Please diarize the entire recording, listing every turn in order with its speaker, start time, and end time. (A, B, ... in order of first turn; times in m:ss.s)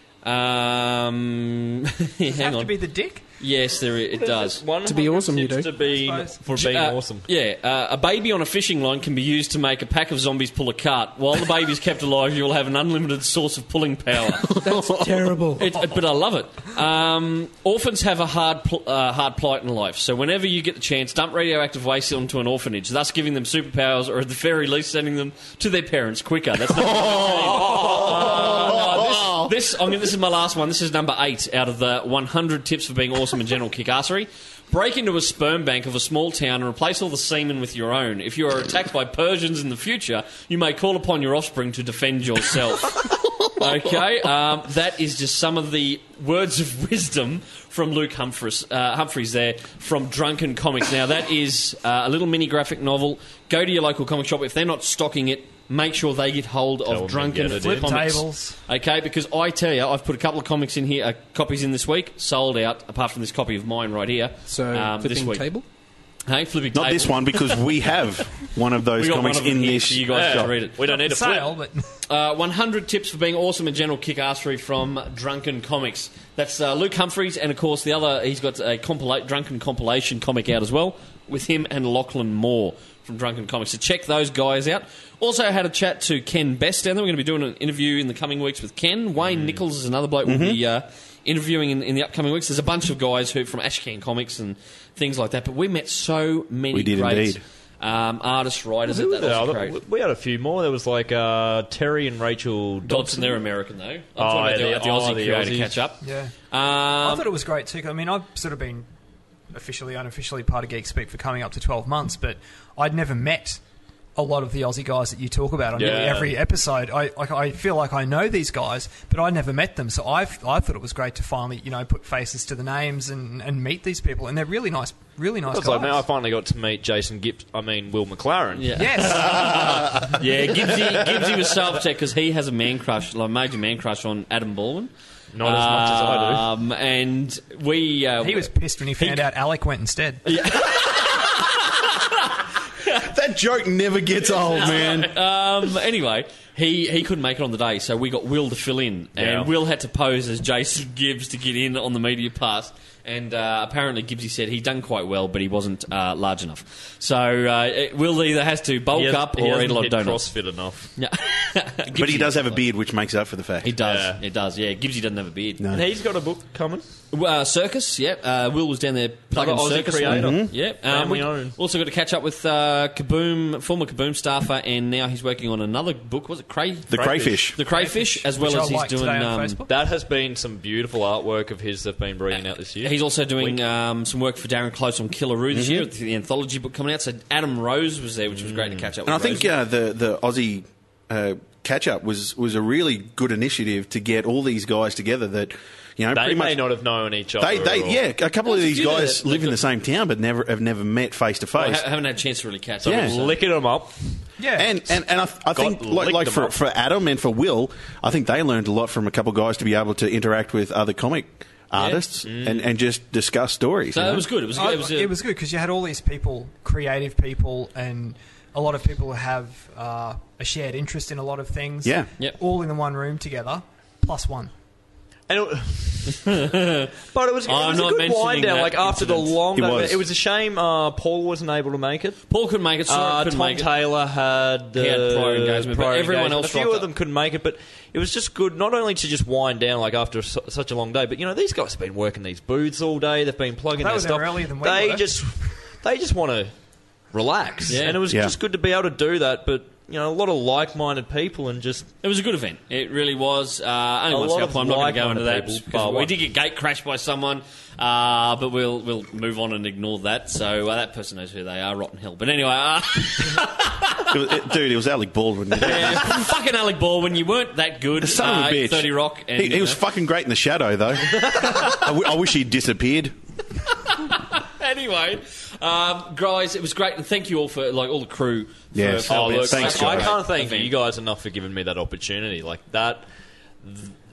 0:00.2-0:02.7 A
0:02.3-0:03.2 B
0:03.4-0:04.6 A
0:04.2-0:07.3 C
0:04.8-0:05.7 D
0:05.8-0:06.4 B
0:06.5-0:14.8 A
0:14.5-0:15.8 D
0:15.6-1:05.5 A
0:26.7-0:29.5 E
0:27.6-0:28.7 C
0:56.8-0:58.2 C
0:57.5-0:58.6 B
1:04.5-1:05.6 D
1:06.3-1:07.7 A
1:06.7-1:10.5 E
1:09.0-1:10.7 A
1:10.1-1:11.5 C
1:10.8-1:11.9 B
1:12.1-1:39.8 A
1:29.2-1:29.6 C
1:30.2-1:30.6 E
1:36.7-1:37.4 E
1:38.8-1:43.4 C
1:42.8-1:47.3 A
1:44.2-1:45.8 C
1:46.0-1:46.3 B
1:47.0-1:48.9 B
1:49.5-1:53.6 B
1:54.2-2:06.0 B
1:55.8-1:56.3 C
2:05.5-2:08.7 C
2:08.6-2:14.9 A
2:08.7-2:09.9 B
2:15.3-2:16.4 C
2:15.4-2:18.5 A
2:18.2-2:20.2 B
2:19.0-2:19.3 A
2:20.2-2:22.2 A
2:23.0-2:25.1 E
2:24.2-2:40.3 A
2:29.2-2:29.5 C
2:38.9-2:40.9 C
2:41.0-2:42.6 A
2:41.9-2:43.8 E
2:43.6-2:45.7 A
2:43.8-2:44.2 C
2:45.6-2:45.8 E
2:45.7-2:46.8 C
2:47.1-2:59.6 A
2:49.3-2:51.6 C
2:50.0-2:50.5 E
2:56.9-2:57.6 E
2:56.9-2:57.4 C
2:57.7-2:59.7 B
2:59.7-3:03.6 C
3:02.8-3:09.5 A
3:05.5-3:05.9 E
3:08.3-3:08.9 C
3:09.0-3:16.6 E
3:16.1-3:18.0 C
3:17.4-3:21.8 E
3:18.4-3:19.6 A
3:21.6-3:23.4 A
3:22.8-3:24.2 C
3:22.8-3:23.2 E
3:24.4-3:24.7 B
3:24.6-3:34.2 E
3:25.5-3:26.5 C
3:32.2-3:32.6 C
3:33.9-3:35.1 A
3:34.5-3:44.5 B
3:41.8-3:42.1 E
3:45.3-3:46.5 C
3:46.2-3:46.9 A
3:47.1-3:52.2 C
3:47.4-3:49.4 A
3:49.5-3:50.0 E
3:52.3-3:53.7 A
3:52.9-4:06.5 C
3:54.8-3:56.9 A
4:03.8-4:05.1 B
4:07.1-4:11.9 C
4:07.7-4:08.0 A
4:08.0-4:08.3 E
4:12.0-4:24.2 A
4:14.1-4:16.1 C
4:24.0-4:26.3 E
4:25.6-4:29.8 A
4:25.6-4:26.0 C
4:28.0-4:33.1 E
4:31.3-4:31.8 A
4:33.9-4:40.7 A
4:38.7-4:40.2 E
4:39.1-4:43.0 C
4:43.6-4:43.9 C